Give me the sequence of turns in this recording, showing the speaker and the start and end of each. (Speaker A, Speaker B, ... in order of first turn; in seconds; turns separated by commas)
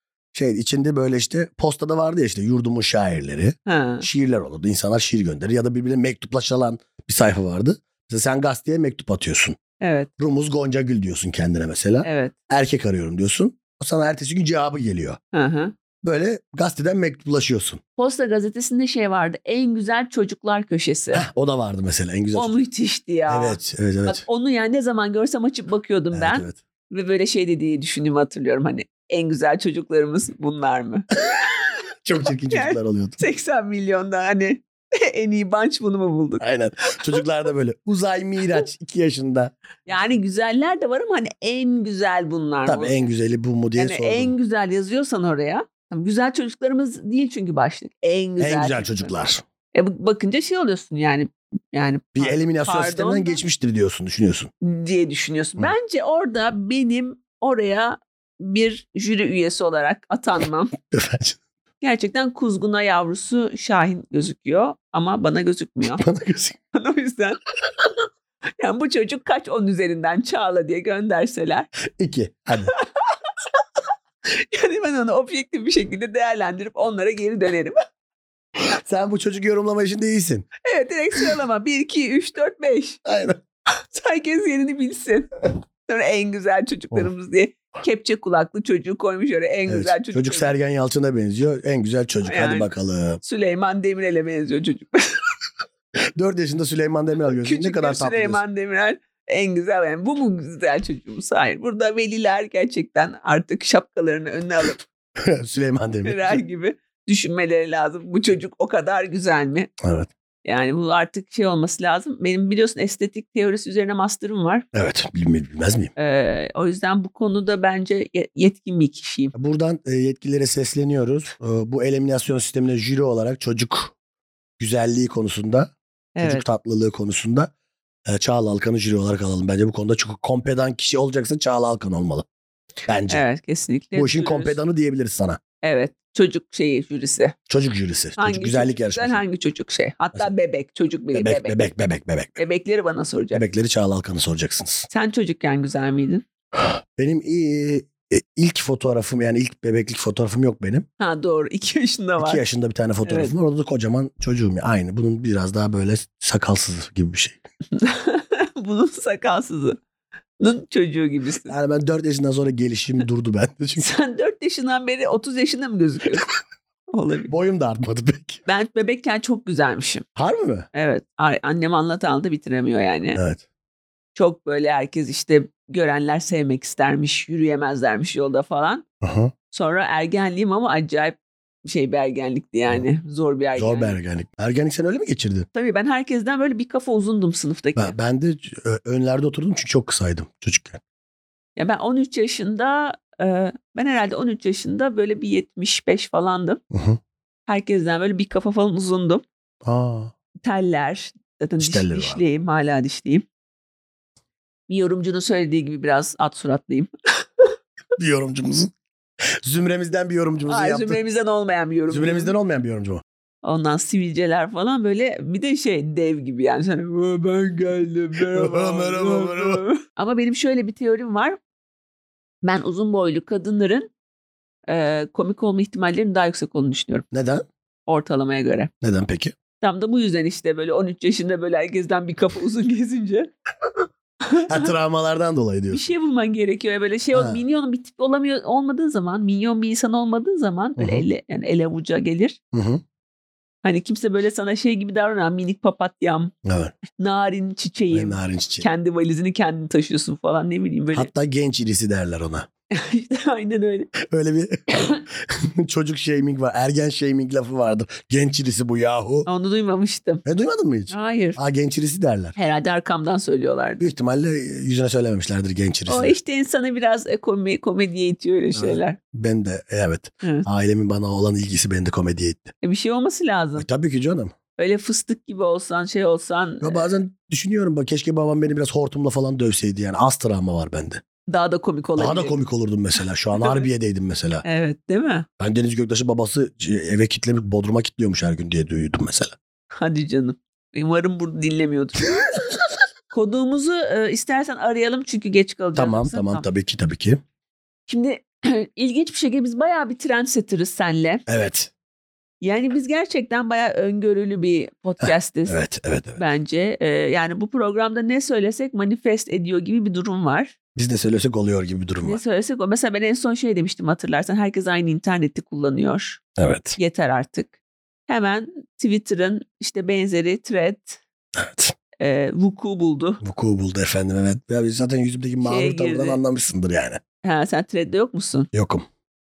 Speaker A: 0.3-9.6, Speaker B: 3.6-4.0, Speaker B: 9.8-10.1, Speaker A: 10.2-15.2, Speaker B: 12.0-12.3, Speaker B: 15.3-15.7, Speaker A: 16.0-17.8, Speaker B: 18.0-21.2, Speaker A: 21.1-22.6, Speaker B: 22.3-31.1, Speaker A: 23.3-24.2, Speaker A: 26.1-26.6, Speaker A: 32.0-33.2, Speaker B: 32.5-36.4, Speaker A: 36.4-39.5, Speaker B: 39.9-43.0, Speaker A: 42.6-44.3, Speaker B: 43.8-49.1, Speaker A: 48.4-49.4, Speaker B: 49.7-53.4, Speaker A: 52.1-54.5, Speaker B: 54.6-60.7, Speaker A: 60.9-61.4, Speaker B: 61.8-66.0, Speaker A: 66.0-66.6, Speaker B: 66.7-67.4, Speaker B: 68.6-71.7, Speaker A: 72.0-72.7, Speaker B: 72.8-73.2, Speaker B: 74.2-77.8, Speaker A: 78.6-80.5, Speaker B: 80.6-83.0, Speaker A: 83.0-83.4, Speaker B: 83.8-85.3, Speaker B: 85.9-90.5, Speaker A: 89.7-93.2, Speaker B: 92.2-92.7, Speaker B: 93.2-95.1, Speaker A: 96.2-98.4, Speaker B: 97.4-104.8, Speaker A: 105.2-106.4, Speaker B: 106.0-109.7, Speaker A: 109.8-110.1, Speaker B: 110.4-114.7, Speaker A: 114.7-115.9, Speaker B: 116.0-119.3, Speaker A: 119.3-123.9, Speaker A: 124.6-127.5, Speaker B: 126.2-126.4, Speaker A: 128.1-132.2, Speaker A: 132.9-133.2, Speaker B: 133.1-134.6, Speaker A: 133.9-135.4, Speaker B: 135.6-137.3, Speaker A: 137.5-139.2, Speaker B: 138.2-141.7, Speaker A: 141.1-142.4, Speaker B: 142.4-143.4, Speaker A: 143.3-144.9, Speaker B: 144.9-146.2, Speaker A: 146.6-150.8, Speaker B: 151.0-152.4, Speaker A: 152.2-157.4, Speaker B: 153.0-153.3, Speaker B: 157.7-159.8, Speaker B: 160.4-161.5, Speaker A: 161.5-163.9, Speaker B: 163.8-166.2, Speaker B: 166.9-167.3, Speaker A: 167.3-168.4, Speaker B: 168.4-170.0, Speaker A: 170.2-170.7, Speaker B: 170.7-173.2, Speaker A: 173.1-173.4, Speaker B: 174.1-178.8, Speaker A: 179.0-179.3, Speaker B: 179.5-183.9, Speaker A: 183.6-185.5, Speaker B: 185.5-187.9, Speaker A: 187.8-190.8, Speaker B: 191.6-196.6, Speaker A: 196.7-197.0, Speaker B: 197.5-199.2, Speaker A: 199.6-200.1, Speaker B: 200.4-203.2, Speaker A: 201.6-202.2, Speaker B: 204.7-207.5, Speaker A: 208.0-208.7, Speaker A: 209.4-211.0, Speaker B: 210.5-212.3, Speaker A: 211.9-213.0, Speaker B: 213.4-221.4, Speaker A: 218.3-219.6, Speaker B: 222.4-223.9, Speaker B: 224.7-227.1, Speaker A: 227.1-227.4, Speaker B: 227.9-228.7, Speaker A: 228.8-229.3, Speaker B: 229.6-233.3, Speaker B: 234.3-234.7, Speaker A: 234.4-235.9, Speaker B: 235.7-242.4, Speaker A: 237.1-237.4, Speaker A: 240.8-241.1, Speaker A: 242.5-242.8, Speaker B: 243.6-246.3, Speaker A: 246.4-246.8, Speaker B: 247.0-251.1, Speaker A: 247.9-248.7, Speaker A: 250.9-252.5, Speaker B: 252.7-253.9, Speaker A: 254.0-259.3, Speaker B: 259.3-260.2, Speaker A: 260.2-262.4, Speaker B: 260.9-261.4, Speaker B: 262.4-263.9, Speaker A: 263.8-266.1, Speaker B: 265.9-269.0, Speaker A: 268.5-272.5, Speaker B: 272.6-273.7, Speaker A: 273.6-274.3, Speaker B: 274.6-276.9, Speaker A: 276.6-281.0, Speaker B: 281.3-282.4, Speaker A: 282.0-284.4, Speaker B: 283.4-283.6, Speaker B: 284.4-285.3, Speaker A: 285.4-289.4, Speaker B: 289.7-292.2, Speaker B: 293.1-296.4, Speaker A: 295.7-297.2, Speaker B: 297.9-301.2, Speaker A: 301.3-301.7, Speaker B: 302.4-305.6, Speaker A: 305.0-306.2, Speaker B: 306.2-310.5, Speaker A: 310.8-312.2, Speaker B: 312.0-316.2, Speaker A: 316.4-316.8, Speaker B: 316.8-317.5, Speaker B: 318.1-321.0, Speaker A: 321.4-321.7, Speaker B: 322.0-323.2, Speaker A: 323.2-327.0, Speaker B: 325.4-326.2, Speaker B: 327.2-328.5, Speaker A: 328.5-328.9